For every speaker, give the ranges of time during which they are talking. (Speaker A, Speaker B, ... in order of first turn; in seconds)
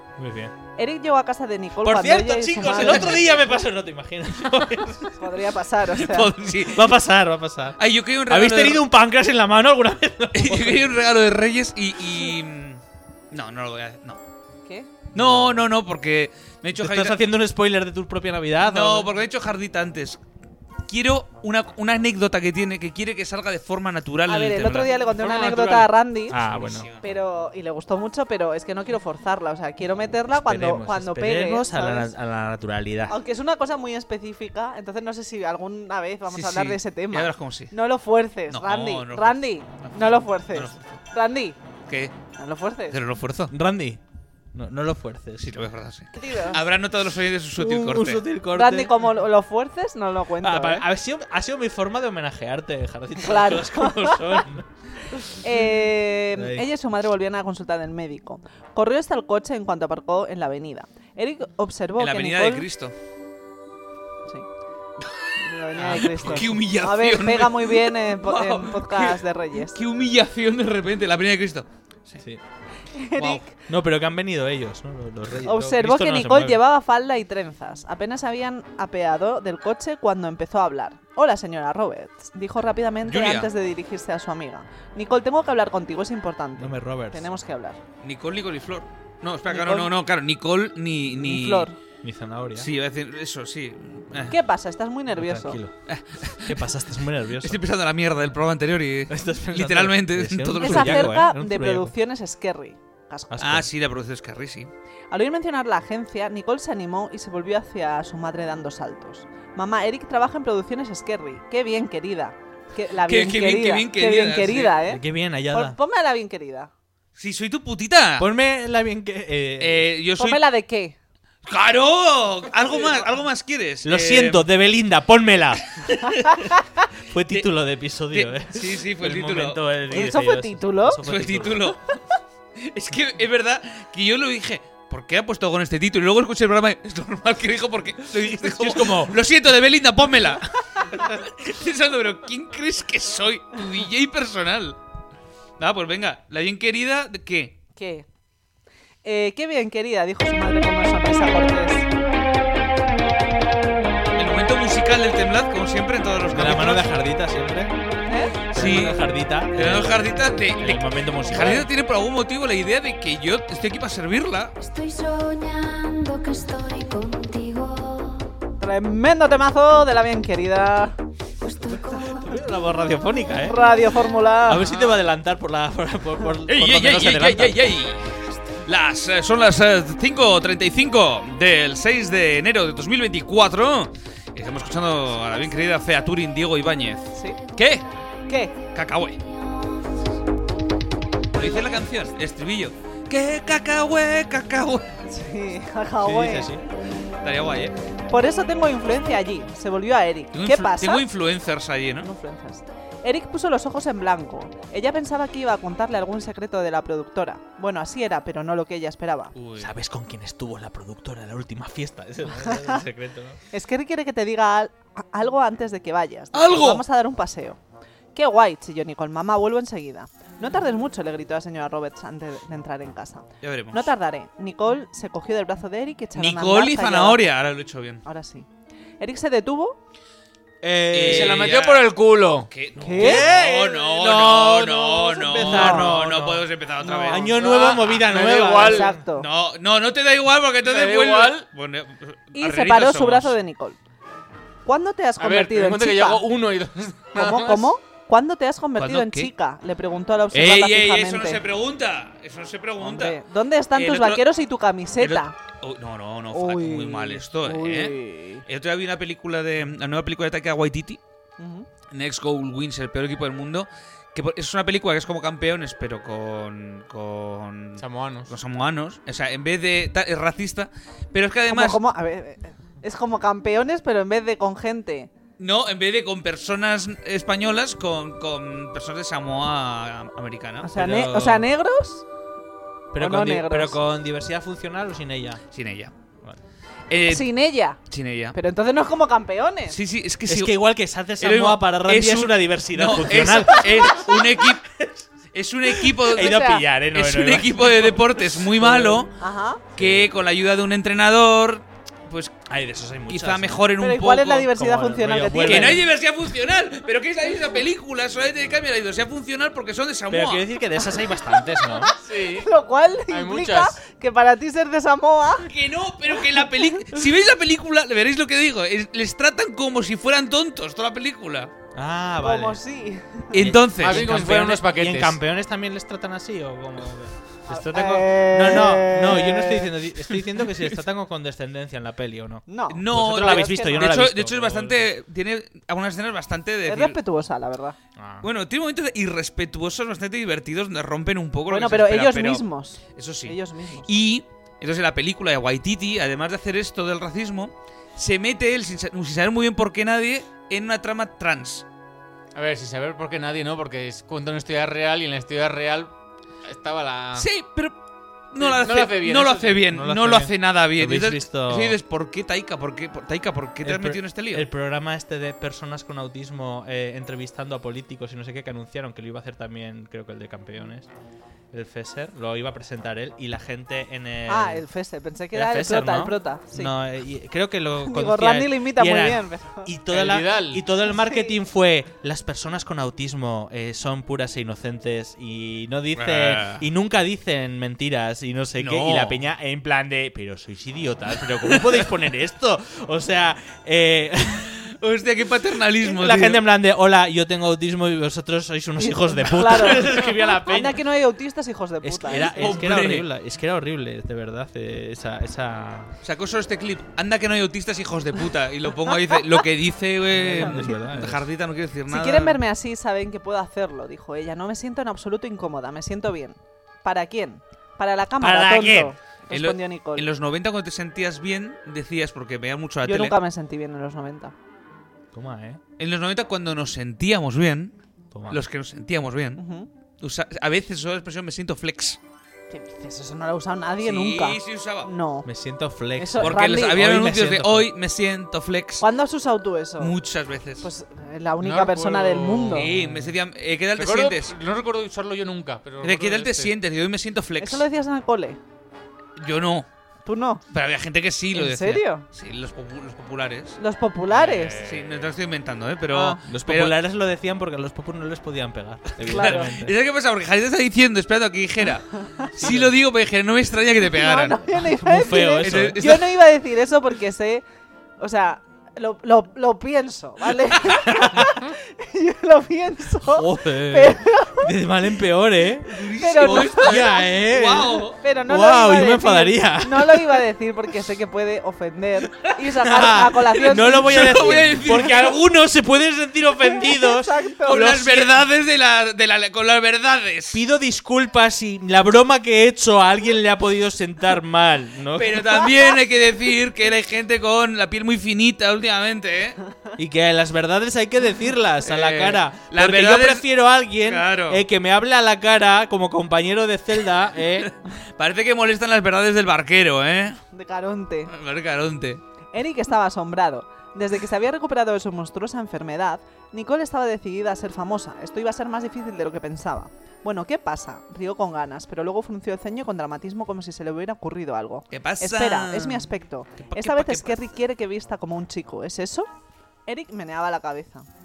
Speaker A: 0.2-0.5, 1.8-5.2, 6.7-10.9, 15.1-15.7, 16.8-19.1, 24.9-26.9, 30.3-33.2, 43.5-44.0, 44.5-45.6, 47.6-48.9, 50.4-55.6, 56.3-56.7, 65.8-66.6, 73.7-76.6, 86.6-87.3, 92.0-92.7, 95.2-95.7, 96.4-97.6, 99.1-101.9, 103.3-103.7, 114.8-115.8, 118.2-119.9, 123.8-125.7, 127.0-131.8, 138.4-139.2, 156.3-157.7, 158.5-161.7, 171.6-173.6, 174.5-177.7, 196.0-196.6, 209.6-213.4, 230.6-231.6, 232.8-236.5, 237.1-239.0, 280.7-281.5, 282.9-285.4, 290.3-295.1, 295.7-299.1, 299.8-300.1, 302.5-303.7, 304.5-305.9, 310.1-311.9, 321.7-322.6, 323.3-334.9, 338.0-338.3, 359.7-361.8, 363.6-370.9, 371.5-374.6, 375.3-394.7, 395.8-400.8, 401.8-405.9, 410.1-411.3, 418.2-418.9, 425.1-425.6, 428.1-428.4, 435.2-437.7, 442.8-443.1, 456.3-459.8, 462.4-462.7, 464.5-465.8, 470.7-471.4, 473.0-480.3, 482.6-488.2, 490.3-495.6, 499.8-507.5
Speaker B: 0.8-3.2, 5.2-6.3, 24.3-26.4, 27.0-32.1, 33.1-41.6, 42.4-43.0, 46.2-46.6, 48.5-50.9, 53.2-54.4, 55.4-62.7, 65.4-69.8, 72.9-73.5, 75.4-87.8, 89.5-89.9, 91.2-91.8, 94.3-95.6, 100.6-103.5, 105.1-116.7, 120.2-121.0, 129.9-131.0, 147.8-148.1, 149.0-151.9, 158.1-158.4, 161.3-161.6, 168.6-171.0, 173.4-174.8, 187.1-187.4, 188.3-188.5, 195.1-196.5, 198.1-201.1, 202.0-209.3, 212.4-212.8, 213.5-217.6, 218.2-227.3, 228.1-228.5, 229.0-229.8, 232.8-233.3, 235.3-236.0, 236.8-237.4, 238.7-239.3, 242.3-243.8, 244.7-246.2, 247.1-251.4, 252.8-255.3, 256.3-258.4, 261.4-261.7, 271.5-275.1, 280.6-282.1, 283.0-283.8, 287.1-287.8, 288.3-289.8, 296.2-296.6, 299.2-299.6, 303.8-305.8, 311.7-315.5, 322.2-323.3, 327.5-329.7, 332.5-334.0, 336.7-337.8, 341.5-343.9, 374.3-376.7, 377.8-379.7, 380.9-381.3, 398.8-402.9, 410.4-410.9, 411.9-420.1, 422.8-424.3, 429.4-429.7, 432.5-435.3, 436.0-436.9, 438.8-439.9, 440.6-442.7, 447.4-448.4, 450.1-450.4, 451.3-452.1, 453.6-454.7, 455.9-456.2, 459.0-459.5, 463.9-467.4, 468.0-474.5, 476.0-476.9, 477.9-484.7, 486.4-487.7, 510.3-511.1, 512.3-529.1, 529.7-530.9
Speaker C: 2.6-3.3, 5.9-6.9, 7.8-8.8, 10.3-12.8, 13.3-14.2, 15.1-17.2, 18.6-20.2, 20.9-24.9, 26.3-27.1, 36.3-37.7, 38.5-41.0, 41.9-42.1, 42.9-43.5, 45.4-48.2, 62.0-62.9, 65.8-72.2, 73.2-73.4, 83.0-83.5, 88.0-91.7, 92.6-94.4, 95.9-96.6, 97.4-101.2, 103.4-104.7, 113.0-114.8, 117.2-118.3, 119.6-120.4, 121.5-124.5, 125.8-126.5, 128.1-129.6, 131.0-132.0, 132.6-144.8, 145.6-147.6, 154.2-156.9, 158.5-164.6, 176.5-187.9, 188.7-189.2, 191.3-194.9, 197.2-197.8, 200.3-202.1, 216.3-216.8, 223.4-223.9, 226.2-228.0, 230.9-231.9, 232.5-237.6, 239.2-243.3, 248.8-249.3, 250.3-253.2, 253.7-254.2, 255.0-261.0, 261.9-271.8, 275.4-280.7, 285.5-285.9, 286.9-287.3, 287.9-288.4, 289.7-290.5, 291.2-294.7, 295.3-296.4, 296.9-299.1, 299.8-302.4, 303.1-304.5, 305.4-310.4, 315.4-321.5, 323.3-324.6, 332.7-337.0, 338.2-342.4, 342.9-351.6, 357.2-357.7, 358.3-364.5, 386.0-386.6, 388.6-389.3, 391.4-391.9, 394.7-396.4, 402.2-403.1, 406.0-412.4, 419.3-423.2, 425.8-427.8, 428.3-429.4, 430.0-432.0, 433.8-434.9, 436.2-438.9, 439.8-440.7, 442.5-444.3, 445.8-447.6, 449.2-449.7, 450.5-453.6, 454.6-456.8, 459.0-464.5, 465.1-466.1, 475.7-478.0, 483.4-485.2, 487.5-490.4, 495.0-499.4, 501.6-503.3, 503.8-504.4, 507.4-510.2, 511.1-512.0, 524.7-525.9, 526.4-527.2
Speaker D: 164.6-168.2, 171.4-174.4, 187.3-188.6, 189.2-190.0
Speaker E: 209.3-209.7, 231.0-232.5, 237.4-238.9, 240.7-241.5, 245.2-247.7, 267.8-268.3, 312.0-312.5, 313.1-313.8, 323.8-325.2, 352.3-355.9, 356.4-357.3, 358.4-359.7, 379.9-380.6, 441.4-442.8, 443.8-446.5, 454.1-455.1